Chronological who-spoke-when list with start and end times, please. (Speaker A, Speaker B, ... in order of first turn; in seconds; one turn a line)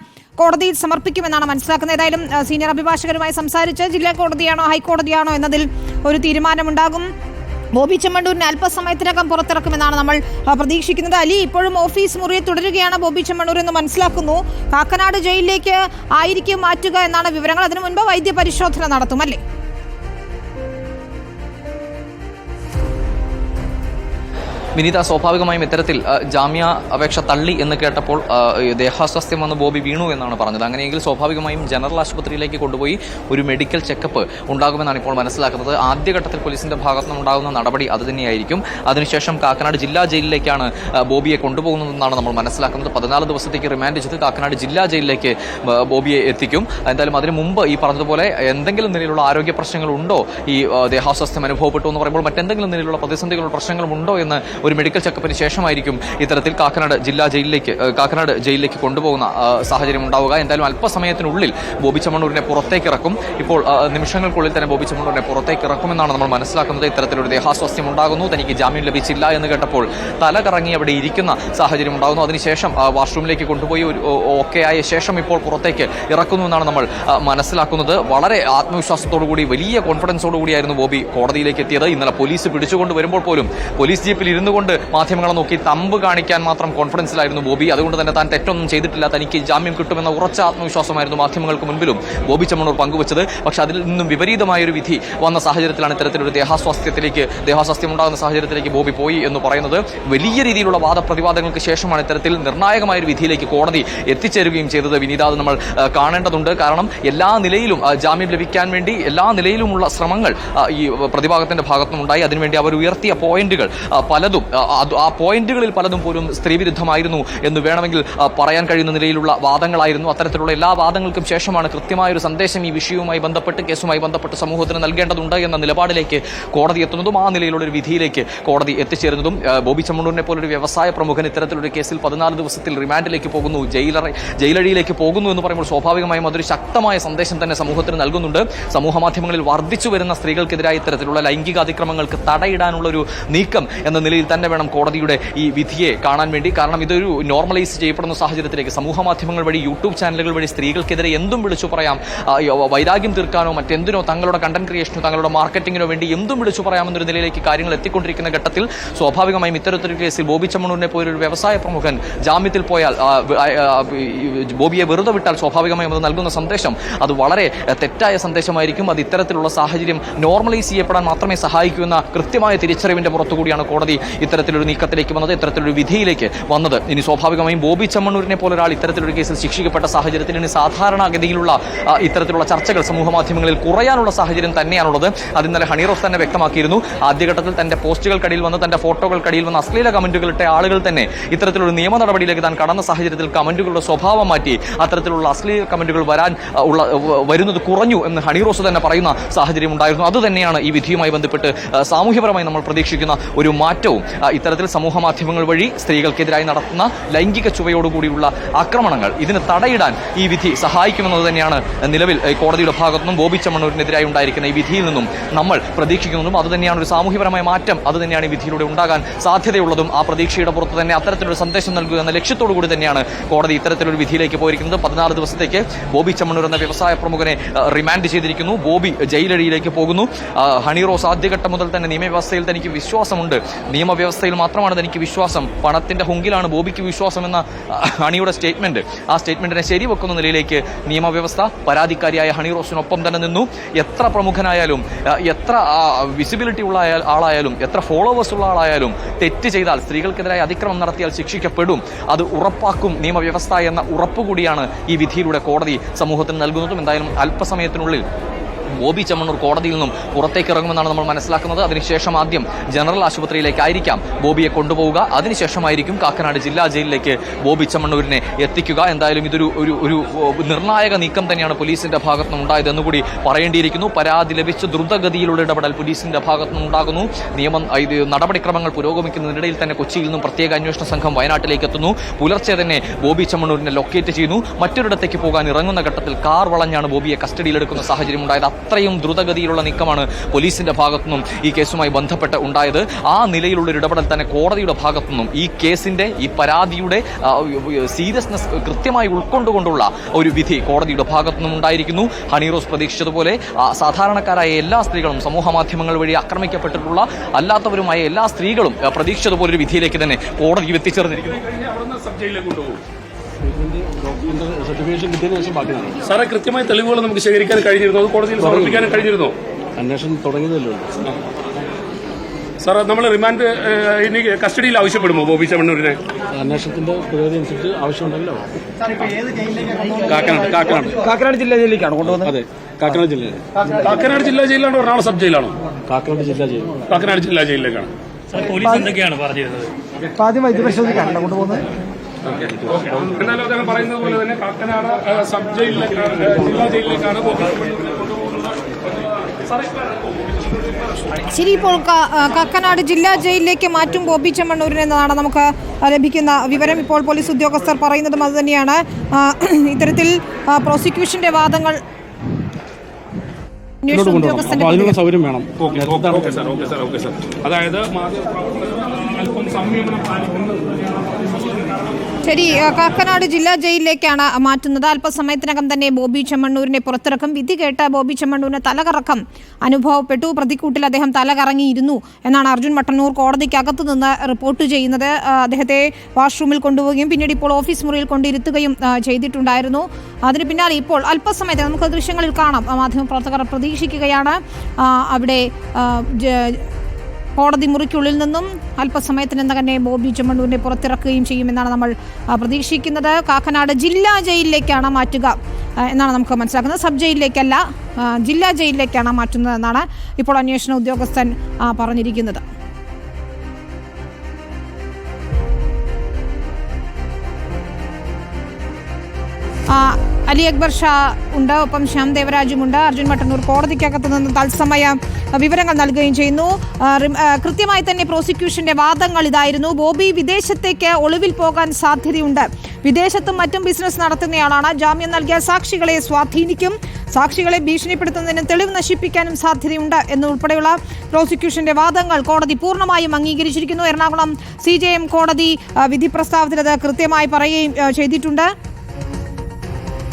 Speaker A: 0.4-7.1
Speaker A: 7.7-19.4
Speaker B: 24.8-258.0
Speaker B: 258.8-311.4
Speaker C: 311.6-312.8
Speaker D: 313.4-316.0
Speaker C: 316.1-319.3
Speaker D: 318.4-319.0
Speaker D: 319.8-320.9
Speaker C: 322.6-326.0
Speaker D: 326.3-328.4
Speaker D: 330.0-331.0
Speaker C: 330.2-331.2
Speaker E: 331.1-332.0
Speaker F: 331.2-332.0
Speaker D: 332.0-333.4
Speaker C: 333.8-335.5
Speaker D: 335.9-336.9
Speaker C: 336.9-337.9
Speaker E: 339.0-339.6
Speaker F: 340.2-341.6
Speaker E: 340.5-341.0
Speaker D: 342.4-343.3
Speaker C: 342.8-348.4
Speaker A: 351.2-361.8
Speaker A: 363.8-365.0
Speaker D: 363.9-366.4
Speaker C: 366.1-370.7
Speaker A: 372.2-396.6
Speaker A: 397.4-412.4
Speaker A: 419.7-448.5